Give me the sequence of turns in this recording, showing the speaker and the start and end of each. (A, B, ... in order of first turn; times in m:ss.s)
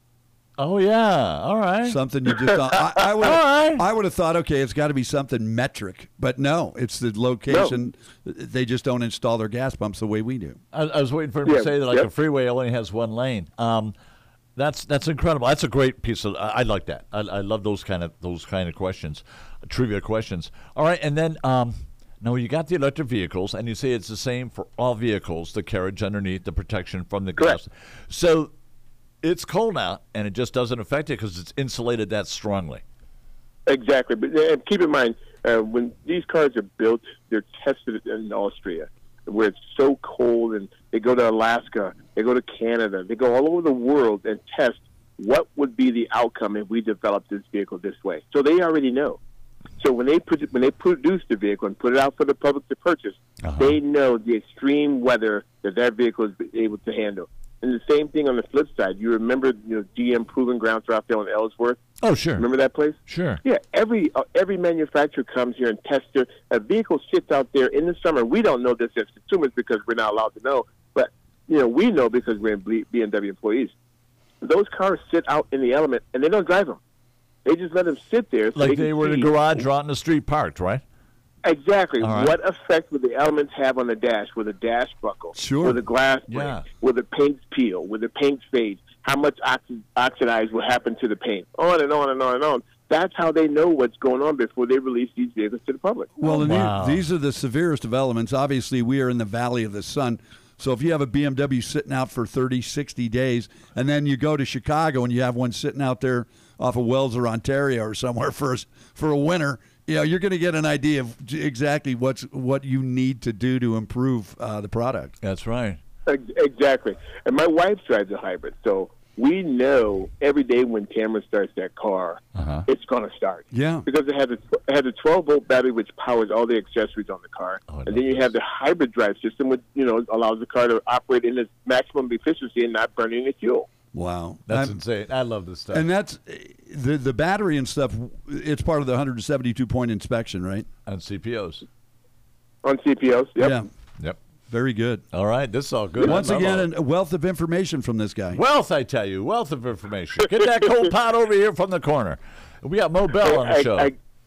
0:00.6-0:03.8 A
0:01.8-0:10.6 B
0:07.5-0:07.8 C
0:10.7-0:14.0 A
0:11.4-0:12.1 C
0:14.6-0:28.5 A
0:29.2-0:32.8 A
0:33.7-0:49.2 C
0:49.8-1:01.8 C
0:53.4-0:53.8 A
1:02.0-1:02.5 A
1:02.4-1:13.7 C
1:03.1-1:03.4 A
1:14.4-1:16.8 C
1:17.4-1:19.3 C
1:18.6-1:20.8 A
1:21.4-1:36.1 C
1:22.0-1:22.4 A
1:25.4-1:25.8 B
1:26.3-1:26.6 A
1:36.2-1:55.1 B
1:36.2-1:37.0 A
1:55.2-1:55.8 A
1:56.1-2:13.7 C
2:02.4-2:02.6 A
2:03.5-2:03.9 B
2:07.7-2:08.2 A
2:13.9-2:14.8 B
2:14.5-2:15.9 A
2:15.7-2:20.7 B
2:20.9-2:21.6 A
2:22.6-2:23.6 C
2:23.4-2:23.7 B
2:24.5-2:25.0 B
2:25.1-2:26.7 A
2:26.0-2:28.4 B
2:28.3-2:33.9 A
2:33.2-2:34.0 C